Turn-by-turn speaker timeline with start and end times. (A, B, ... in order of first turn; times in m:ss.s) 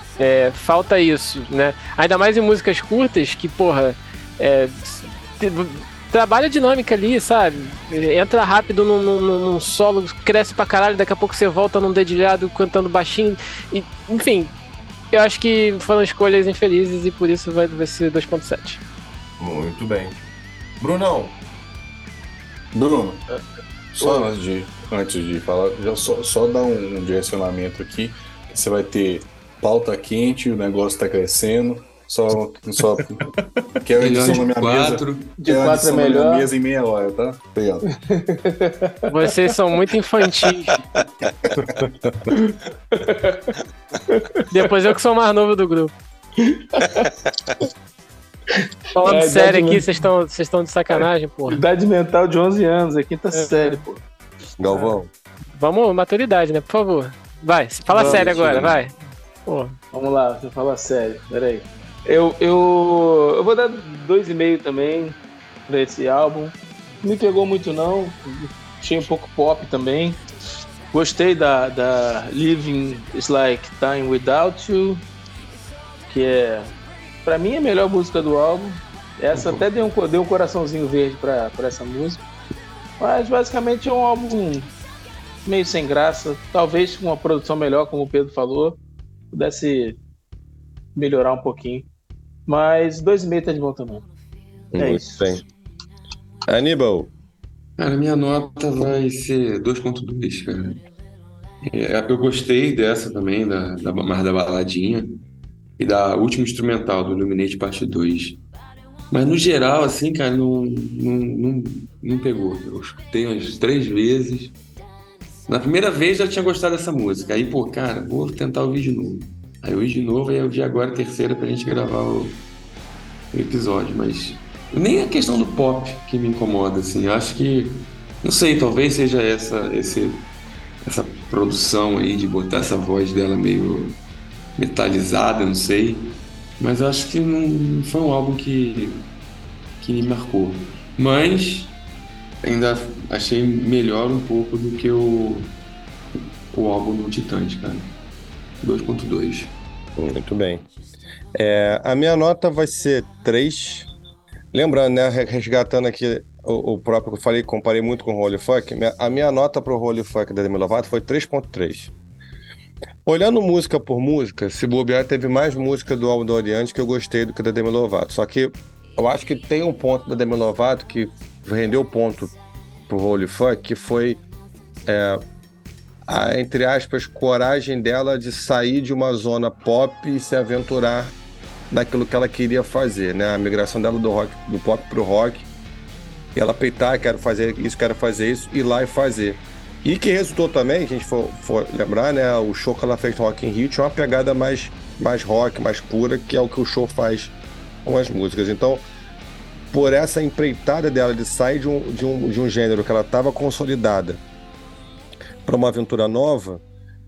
0:00.2-0:14.5 A
0:15.1-0:18.8 A
0:19.4-0:20.2 B
0:20.8-0:21.3 B
0:22.7-0:23.2 C
0:23.9-0:37.9 C
0:24.0-0:24.3 D
0:34.0-0:35.4 E
0:35.4-0:36.5 D
0:37.9-0:39.3 D
0:39.1-0:40.8 A
0:41.6-0:42.3 C
0:42.5-0:43.6 D
0:44.1-0:44.4 D
0:44.5-0:45.9 A
0:46.4-0:47.1 D
0:49.0-0:51.6 A
0:49.0-0:49.9 D
0:51.5-0:54.0 D
0:53.3-0:53.8 A
0:54.6-0:55.1 B
0:55.6-0:58.9 A
0:57.9-0:58.8 D
0:58.3-0:58.6 C
0:59.5-0:59.8 A
0:59.9-1:05.2 D
1:05.7-1:10.2 D
1:10.9-1:15.0 D
1:16.1-1:16.7 D
1:17.2-1:22.2 D
1:19.3-1:19.6 E
1:23.0-1:24.7 D
1:25.4-1:28.8 D
1:29.3-1:30.0 D
1:31.0-1:31.9 D
1:32.5-1:34.1 D
1:34.7-1:35.4 B
1:34.8-1:35.4 D
1:36.5-1:37.1 B
1:37.8-1:40.8 E
1:41.6-1:45.2 E
1:45.8-1:48.4 E
1:49.1-1:54.6 E
1:55.5-2:02.4 E
2:03.3-2:10.3 E
2:10.8-2:14.0 E
2:14.6-2:19.1 E
2:19.8-2:21.8 E
2:22.4-2:25.5 E
2:26.2-2:27.9 E
2:28.6-2:29.5 E
2:30.0-2:30.6 B
2:31.4-2:33.9 B
2:34.5-2:41.9 B
2:43.1-2:52.4 B
2:52.9-2:54.2 B
2:54.9-2:55.2 B
2:56.1-3:01.2 B
3:01.7-3:05.5 B
3:06.4-3:17.3 B
3:17.8-3:18.9 B
3:19.7-3:24.2 B
3:25.5-3:26.6 B